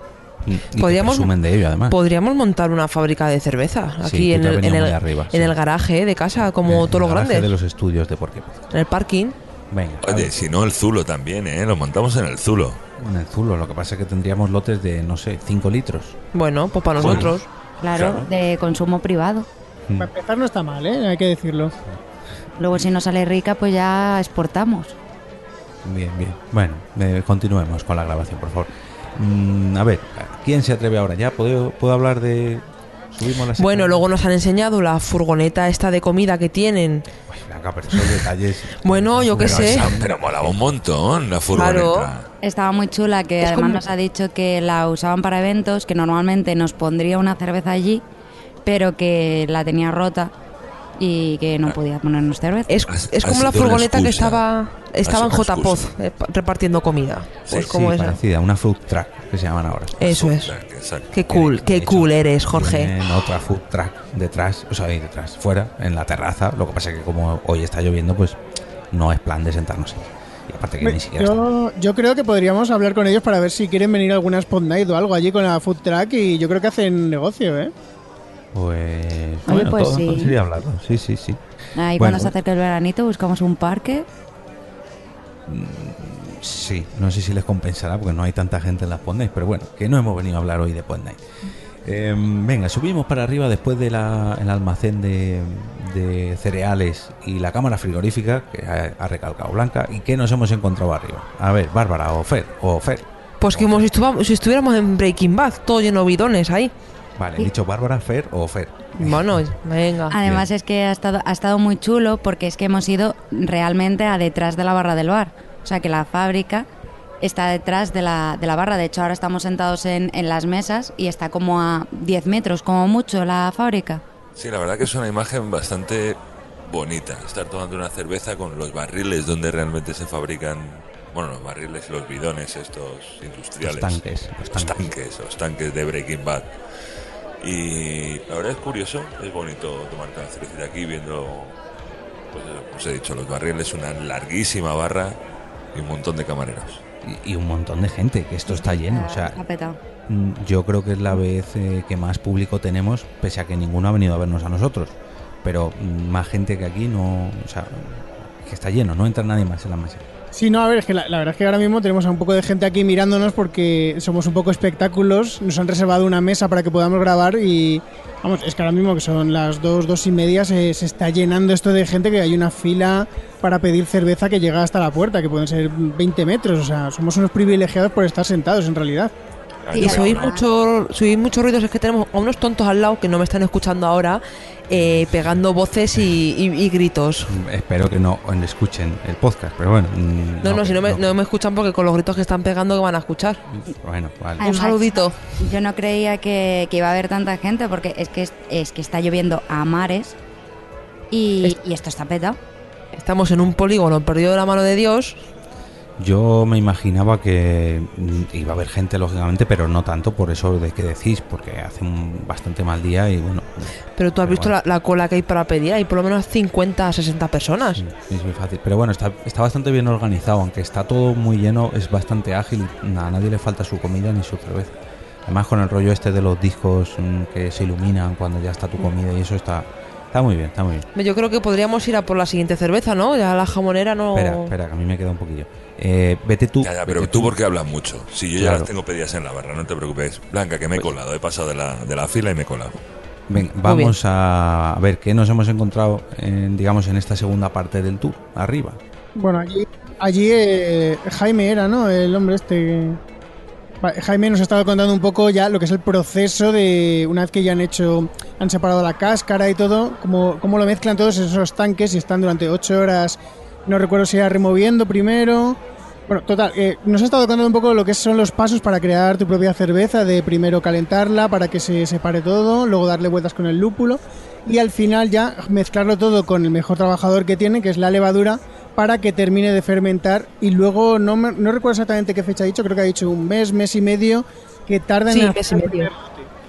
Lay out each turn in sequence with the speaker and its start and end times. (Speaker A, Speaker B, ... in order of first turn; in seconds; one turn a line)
Speaker A: 0.4-1.9
Speaker B: 0.8-1.3
Speaker B: 1.9-7.5
Speaker A: 4.0-5.5
Speaker A: 6.6-8.7
Speaker B: 8.7-9.4
Speaker A: 9.7-10.4
Speaker C: 10.0-12.8
Speaker A: 13.0-16.1
Speaker B: 16.3-17.4
Speaker C: 17.0-17.3
Speaker A: 17.0-17.3
Speaker D: 17.8-19.5
Speaker C: 17.9-18.3
Speaker E: 20.0-21.7
Speaker D: 22.6-24.9
Speaker A: 25.8-34.0
Speaker B: 33.6-37.0
Speaker A: 37.3-40.8
Speaker B: 38.8-39.9
Speaker C: 39.4-42.3
Speaker B: 41.5-42.1
Speaker D: 42.4-48.0
Speaker B: 43.4-43.8
Speaker D: 48.6-50.3
Speaker D: 51.0-52.9
Speaker B: 52.7-58.2
Speaker C: 52.9-54.4
Speaker C: 55.0-55.9
Speaker A: 57.5-60.1
Speaker B: 60.0-60.5
Speaker C: 60.0-61.1
Speaker B: 61.1-62.9
Speaker A: 61.3-68.4
Speaker A: 68.9-71.4
Speaker E: 70.8-77.7
Speaker A: 78.5-81.4
Speaker D: 79.5-80.3
Speaker D: 81.8-84.0
Speaker A: 82.0-82.3
Speaker A: 85.5-91.2
Speaker A: 91.8-103.8
Speaker B: 103.4-106.7
Speaker A: 107.2-109.5
Speaker B: 109.0-110.1
Speaker D: 110.1-116.7
Speaker A: 110.2-110.5
Speaker D: 117.2-124.0
Speaker C: 124.4-134.0
Speaker A: 133.6-134.9
Speaker C: 134.5-136.5
Speaker C: 137.4-141.5
Speaker C: 142.3-145.2
Speaker C: 145.7-146.8
Speaker A: 147.0-149.4
Speaker D: 148.5-149.8
Speaker A: 150.1-160.1
Speaker E: 160.3-179.1
Speaker C: 179.6-180.3
Speaker D: 179.7-180.4
Speaker B: 179.8-187.3
Speaker A: 184.7-185.1
Speaker A: 187.3-191.2
Speaker B: 190.4-193.4
Speaker A: 193.5-194.4
Speaker B: 194.4-195.2
Speaker D: 194.4-200.2
Speaker D: 201.1-202.4
Speaker B: 202.9-205.2
Speaker A: 206.0-213.7
Speaker B: 214.0-217.8
Speaker A: 214.2-214.5
Speaker A: 217.7-230.9
Speaker B: 230.9-234.5
Speaker A: 234.1-237.3
Speaker C: 236.6-242.8
Speaker A: 238.4-238.7
Speaker A: 243.3-248.8
Speaker B: 243.6-243.9
Speaker E: 249.2-253.0
Speaker E: 253.8-286.3
Speaker B: 285.1-285.9